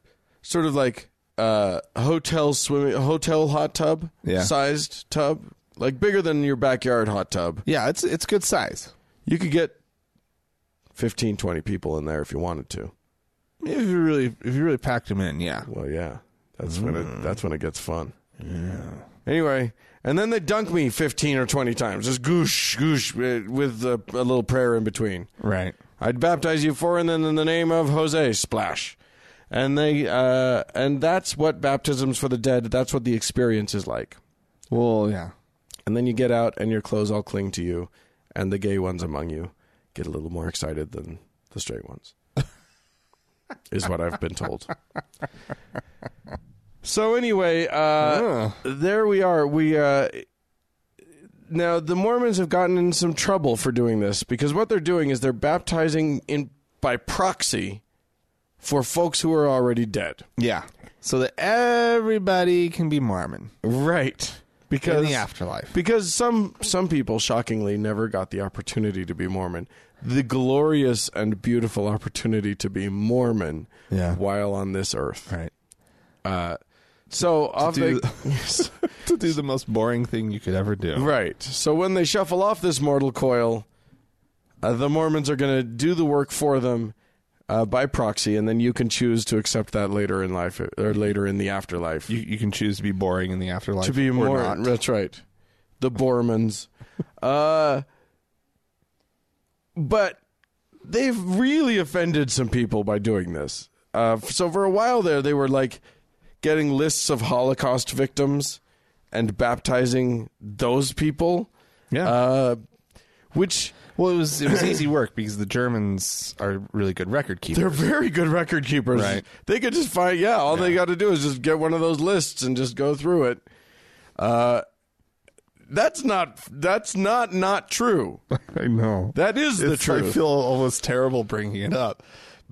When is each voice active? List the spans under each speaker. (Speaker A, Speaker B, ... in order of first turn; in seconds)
Speaker A: 0.4-7.6, 9.2-9.8, 10.9-12.9, 15.7-18.1, 19.2-25.3, 26.0-29.0, 29.5-34.2, 35.9-42.1, 43.7-44.7, 46.8-50.2, 51.5-57.8, 58.6-60.2, 63.6-75.3, 76.2-78.8, 81.0-83.7, 84.6-86.9, 87.5-92.2, 93.8-95.2, 95.8-96.7, 97.2-97.8, 99.8-100.2, 100.8-105.8, 106.4-108.6, 109.1-111.5, 112.0-112.6, 113.3-113.8, 117.5-123.4, 124.2-124.6, 125.7-128.2, 129.1-130.2
Speaker B: 4.2-4.5, 7.7-8.9, 13.6-15.7, 16.7-17.4, 18.4-19.1, 25.4-25.8, 34.7-35.3, 48.0-48.6, 60.4-63.5, 64.8-65.7, 73.9-74.2, 77.6-81.1, 92.1-94.7, 113.9-117.8, 118.9-119.2, 120.5-120.8, 128.3-132.0